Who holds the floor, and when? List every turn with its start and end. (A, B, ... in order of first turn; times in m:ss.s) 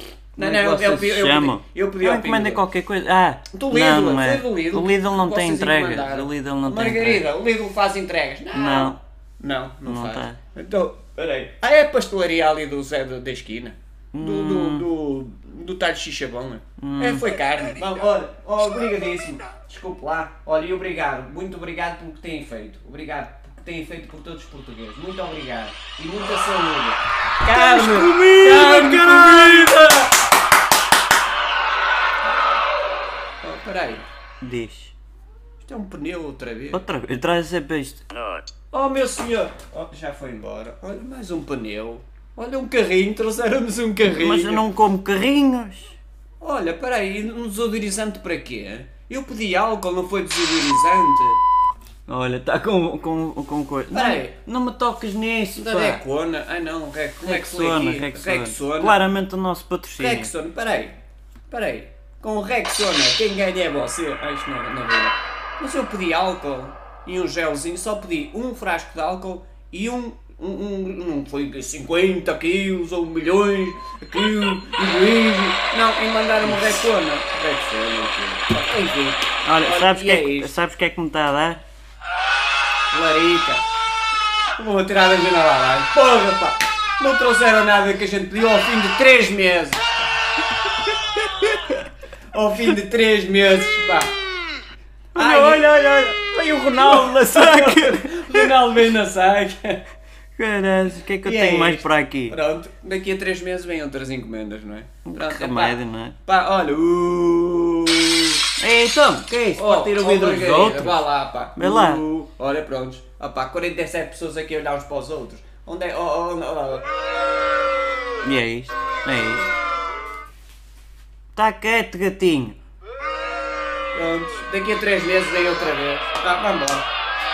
0:00.4-0:02.6 A
0:00.4-0:07.2 B
0:03.5-0:30.1 A
0:08.5-0:09.0 B
0:09.8-0:10.4 B
0:14.1-0:14.9 B
0:16.8-0:17.2 B
0:27.4-0:30.0 B
0:33.4-0:34.1 A
0:34.4-0:34.9 B
0:35.6-0:36.8 A
0:36.7-0:38.0 B
0:38.7-0:44.6 A
0:44.0-0:46.0 B
0:46.4-0:51.4 A
0:52.1-0:56.0 B
0:53.9-0:54.4 A
0:55.6-0:59.0 A
0:57.2-1:00.3 B
1:00.0-1:01.0 A
1:01.5-1:20.5 A
1:19.4-1:21.6 B
1:22.9-1:23.6 A
1:24.6-1:30.0 A
1:32.3-1:34.2 A
1:35.1-1:35.7 A
1:35.1-1:38.5 B
1:36.7-1:39.8 A
1:40.4-1:42.4 B
1:41.2-1:48.4 A
1:45.1-1:46.2 B
1:48.6-1:52.0 B
1:49.6-1:56.9 A
1:58.2-1:59.5 B
2:01.4-2:02.6 B
2:03.9-2:06.9 A